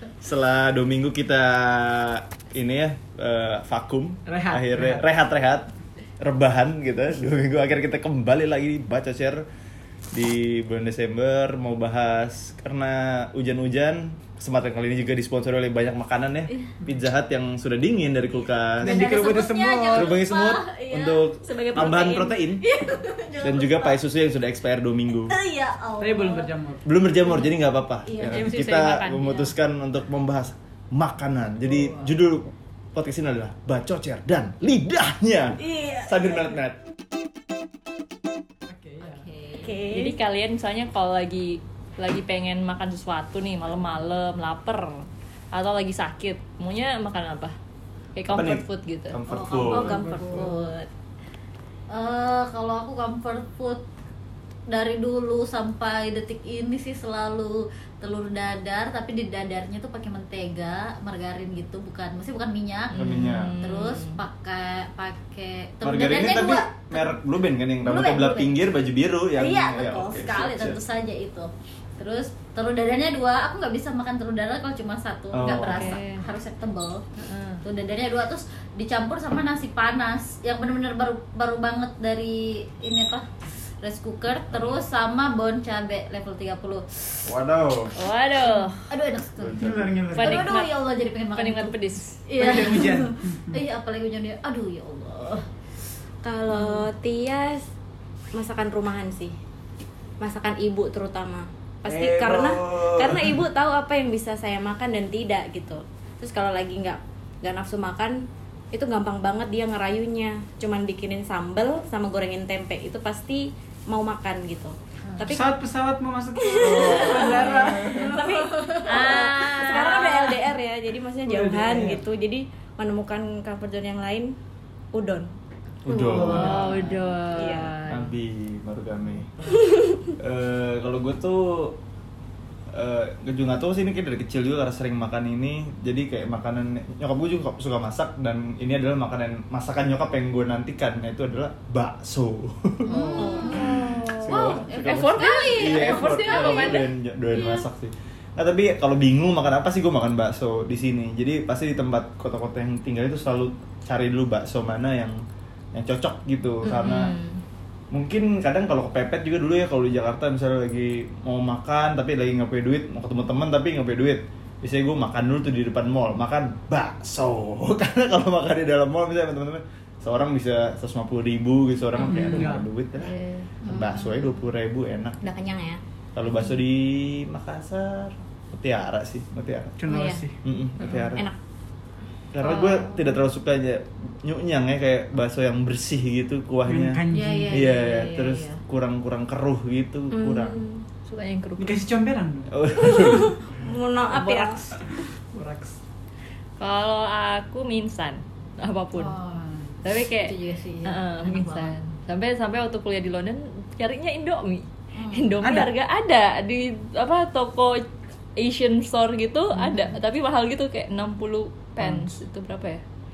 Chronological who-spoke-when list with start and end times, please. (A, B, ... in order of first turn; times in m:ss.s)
0:00.2-0:05.7 A
0:04.2-0:05.0 B
0:06.2-0:09.5 A
0:10.1-0:19.1 A
0:18.8-0:20.1 B
0:18.8-0:24.0 C
0:19.9-0:22.6 A
0:21.6-0:22.2 D
0:23.4-0:25.3 A
0:25.2-0:26.5 C
0:26.0-0:26.9 B
0:26.8-0:36.8 A
0:27.2-0:28.5 C
0:28.2-0:29.5 E
0:31.7-0:32.1 B
0:35.6-0:36.4 C
0:38.6-0:39.2 B
0:39.0-0:39.9 C
0:39.6-0:40.1 D
0:39.8-0:47.6 E
0:48.2-0:49.2 E
0:48.3-0:50.0 A
0:49.3-0:50.9 C
0:49.7-0:50.6 B
0:51.9-0:53.8 C
0:54.7-1:07.2 C
1:02.9-1:03.6 A
1:02.9-1:04.2 E
1:05.8-1:10.8 A
1:07.8-1:08.6 C
1:09.4-1:17.0 C
1:15.3-1:16.0 A
1:15.4-1:16.2 E
1:17.2-1:17.6 E
1:17.6-1:23.3 C
1:23.8-1:27.2 C
1:24.5-1:24.8 A
1:27.2-1:27.9 A
1:28.0-1:28.8 E
1:28.5-1:35.5 C
1:29.4-1:29.9 A
1:29.6-1:30.5 B
1:30.1-1:30.8 E
1:31.3-1:32.2 E
1:32.3-1:33.6 B
1:36.2-1:37.6 D
1:38.3-1:39.4 D
1:40.2-1:55.5 D
1:41.8-1:43.4 A
1:55.3-1:58.7 B
1:56.4-2:04.4 D
1:56.6-1:58.1 A
1:57.9-1:59.7 C
1:58.8-2:00.4 E
2:01.2-2:02.0 B
2:04.9-2:05.3 D
2:05.8-2:06.7 A
2:05.9-2:06.6 D
2:06.1-2:07.1 B
2:06.2-2:08.1 E
2:06.4-2:06.6 C
2:07.3-2:07.7 D
2:07.8-2:09.3 A
2:10.2-2:11.8 A
2:12.7-2:35.2 A
2:22.9-2:26.8 C
2:23.2-2:26.9 E
2:35.7-2:37.2 A
2:36.6-2:37.4 E
2:37.9-2:55.2 A
2:52.0-2:52.4 E
2:52.2-2:52.7 B
2:53.0-2:53.5 E
2:53.6-2:54.4 C
2:55.2-2:55.8 D
2:56.1-2:59.8 A
2:59.8-3:00.4 B
2:59.9-3:00.2 D
3:00.4-3:01.3 A
3:01.0-3:01.4 D
3:02.3-3:10.6 A
3:06.6-3:07.7 B
3:07.1-3:08.6 C
3:10.1-3:10.8 D
3:11.0-3:11.8 E
3:11.6-3:12.6 B
3:12.5-3:13.4 A
3:12.7-3:14.8 D
3:14.2-3:14.5 E
3:15.0-3:15.8 B
3:16.6-3:19.2 E
3:18.9-3:21.7 C
3:19.8-3:20.3 E
3:20.8-3:32.8 E
3:24.9-3:25.2 C
3:25.4-3:25.7 B
3:29.6-3:30.0 C
3:31.8-3:32.1 B